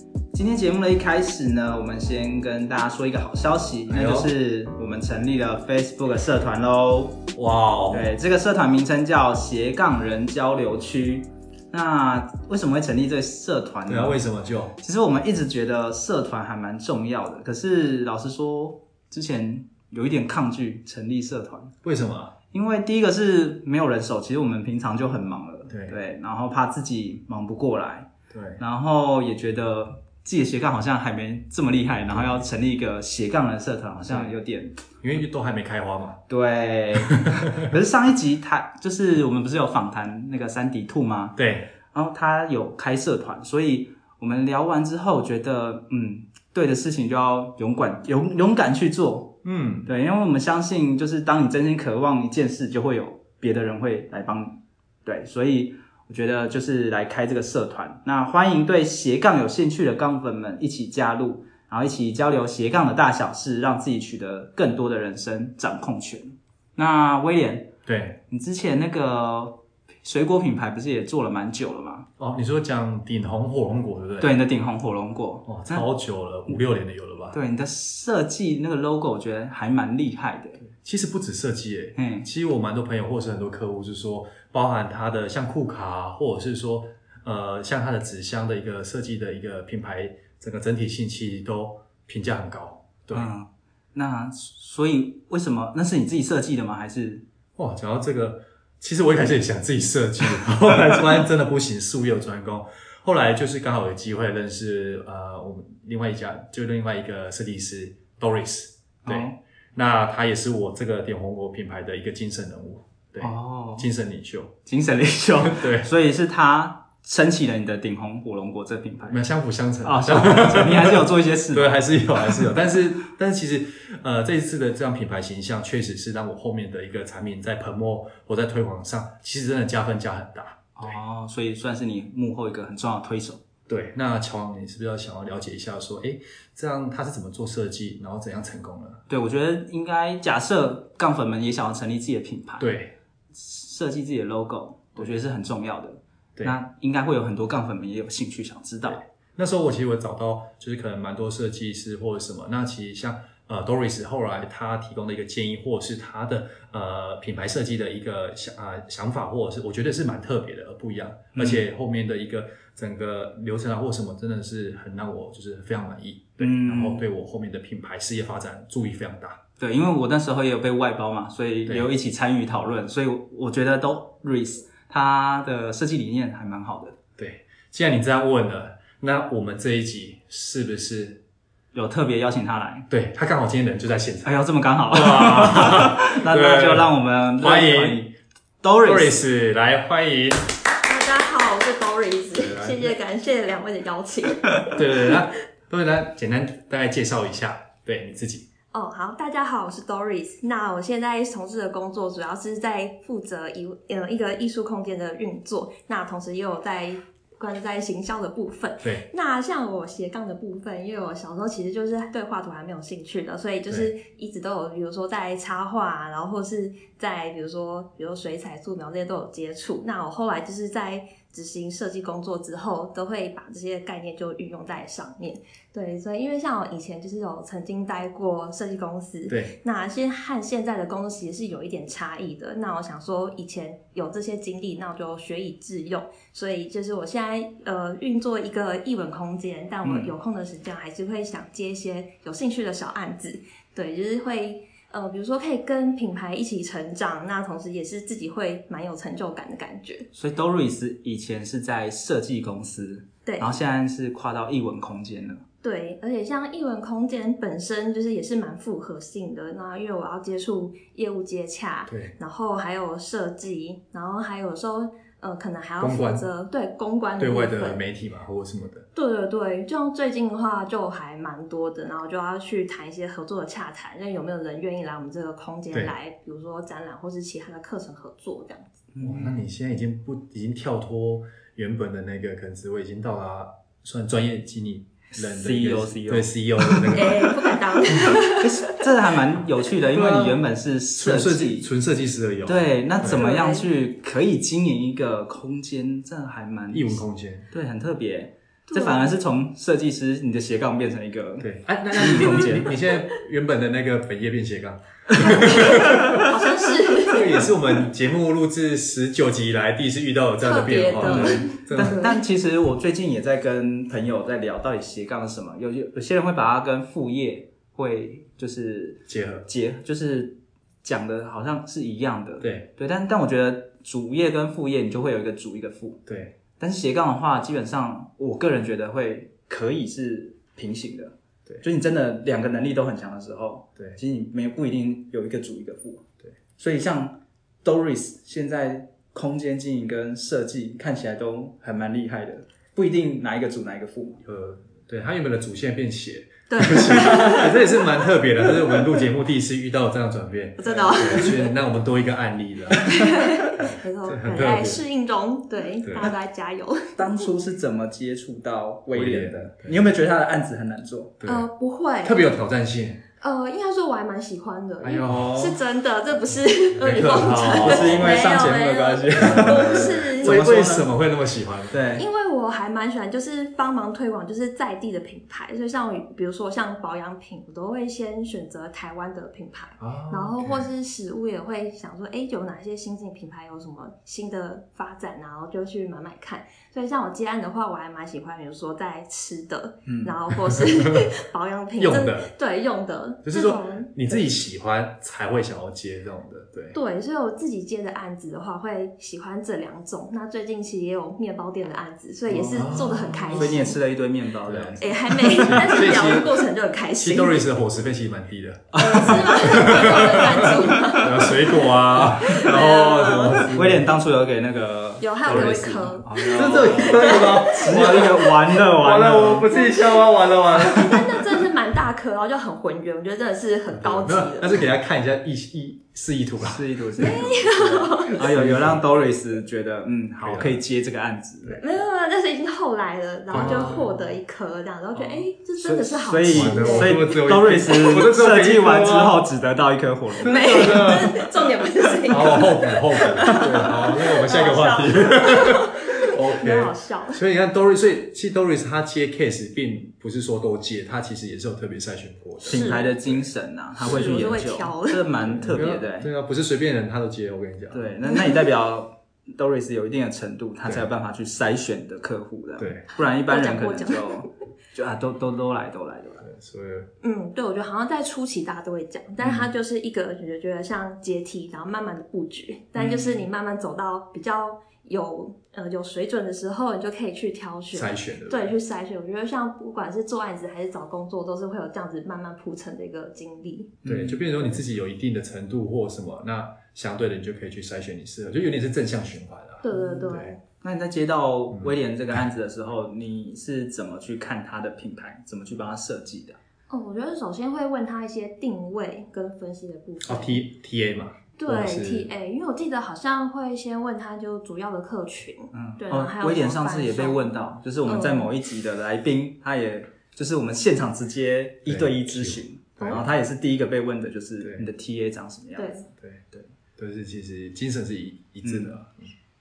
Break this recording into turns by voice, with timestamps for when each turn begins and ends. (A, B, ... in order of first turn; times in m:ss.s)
0:00.3-0:07.2 A
0:03.9-0:04.3 B
0:07.4-0:08.1 B
0:07.9-0:14.2 A
0:13.9-0:14.8 B
0:14.8-0:21.7 A
0:21.8-0:22.3 B
0:22.5-0:34.8 A
0:25.7-0:26.0 B
0:28.3-0:28.6 B
0:35.0-0:36.2 B
0:36.3-0:41.4 A
0:37.0-0:37.7 B
0:41.4-0:41.7 B
0:41.9-0:49.3 A
0:49.4-0:49.9 B
0:49.8-1:07.7 A
1:07.9-1:08.2 B
1:08.3-1:12.1 A
1:12.2-1:14.4 B
1:14.2-1:15.9 A
1:15.5-1:17.4 B
1:17.3-1:20.6 A
1:20.6-1:33.3 B
1:22.0-1:22.3 A
1:33.1-1:37.2 A
1:37.6-1:54.6 B
1:49.0-1:49.4 A
1:53.2-1:53.9 A
1:54.7-1:59.2 A
1:55.4-1:55.9 B
1:59.1-2:11.0 B
1:59.8-2:01.8 A
2:10.8-2:13.4 A
2:13.7-2:19.0 B
2:19.1-2:22.7 A
2:22.6-2:22.9 B
2:23.3-2:29.0 A
2:28.8-2:49.4 B
2:41.3-2:41.6 A
2:46.4-2:47.1 A
2:49.6-2:57.0 A
2:57.2-3:01.2 B
3:01.7-3:02.9 A
3:02.9-3:08.1 B
3:04.2-3:08.0 A
3:08.6-3:09.2 A
3:08.8-3:10.5 B
3:10.8-3:15.1 C
3:12.3-3:13.0 B
3:14.7-3:18.5 B
3:18.7-4:10.1 C
3:49.3-3:49.5 B
3:59.8-4:00.1 A
4:10.1-4:15.4 A
4:13.2-4:13.6 C
4:15.6-4:27.8 C
4:21.9-4:22.1 B
4:25.8-4:26.2 B
4:27.2-4:28.9 B
4:28.9-4:38.8 C
4:38.9-4:39.4 A
4:39.0-4:47.3 B
4:45.2-4:51.7 A
4:46.9-4:48.8 C
4:47.9-4:48.2 B
4:49.9-4:50.4 B
4:51.0-4:53.4 B
4:52.4-4:57.0 A
4:53.0-4:53.7 C
4:56.7-4:57.5 B
4:57.5-5:02.7 A
4:58.7-4:59.2 C
5:01.4-5:06.3 B
5:02.1-5:02.4 C
5:05.1-5:06.2 A
5:05.2-5:07.2 C
5:07.0-5:12.1 B
5:10.4-5:12.2 C
5:11.0-5:26.0 A
5:19.1-5:19.5 B
5:22.4-5:22.7 B
5:26.1-5:26.3 B
5:26.6-5:36.1 A
5:36.6-5:44.2 A
5:44.2-5:54.8 B
5:46.5-5:48.7 C
5:50.6-5:51.5 C
5:50.6-5:51.4 A
5:52.8-5:57.3 C
5:55.8-5:56.1 B
5:57.0-6:01.2 A
5:58.9-5:59.9 B
6:01.2-6:01.5 B
6:01.2-6:02.2 C
6:02.0-6:03.0 B
6:03.2-6:10.4 C
6:04.8-6:05.4 B
6:05.0-6:05.6 A
6:06.8-6:08.2 B
6:07.5-6:10.9 A
6:09.2-6:11.8 B
6:11.7-6:12.1 A
6:11.9-6:34.2 C
6:19.8-6:20.7 B
6:29.8-6:30.2 A
6:30.4-6:31.1 B
6:31.8-6:32.3 B
6:33.2-6:36.8 B
6:36.7-6:43.8 C
6:42.3-6:45.6 A
6:42.5-6:43.6 B
6:44.5-6:46.4 B
6:44.8-6:47.4 C
6:47.0-6:53.9 B
6:48.8-6:59.5 A
6:48.8-6:53.5 C
6:55.0-6:58.6 C
6:55.2-6:55.7 B
6:56.3-7:01.4 B
6:59.4-7:04.6 C
7:03.7-7:08.9 B
7:06.4-7:11.6 A
7:07.0-7:08.3 C
7:10.2-7:10.6 B
7:11.6-7:17.1 C
7:13.3-7:13.9 B
7:13.3-7:14.0 A
7:15.1-7:20.8 A
7:16.3-7:19.3 B
7:20.2-7:21.3 B
7:20.2-7:27.2 C
7:22.1-7:33.1 B
7:23.3-7:23.6 A
7:32.4-7:32.9 C
7:32.4-7:36.1 A
7:33.8-7:35.0 C
7:33.8-7:34.4 B
7:35.2-7:38.2 B
7:37.7-7:46.2 A
7:38.1-7:38.4 C
7:42.6-7:42.9 B
7:43.0-7:44.2 C
7:46.2-7:46.9 B
7:47.0-8:03.8 C
7:49.2-7:49.5 B
7:52.8-7:53.1 B
7:57.7-7:58.5 B
8:03.8-8:04.2 A
8:03.8-8:10.3 B
8:09.6-8:10.4 C
8:10.6-8:16.4 A
8:11.5-8:12.2 B
8:16.7-8:20.4 C
8:20.0-8:22.1 B
8:21.4-8:27.3 C
8:25.5-8:35.9 A
8:27.8-8:28.3 C
8:31.7-8:33.1 B
8:34.4-8:34.7 B
8:35.6-8:35.8 C
8:36.0-8:39.1 B
8:38.4-8:38.8 A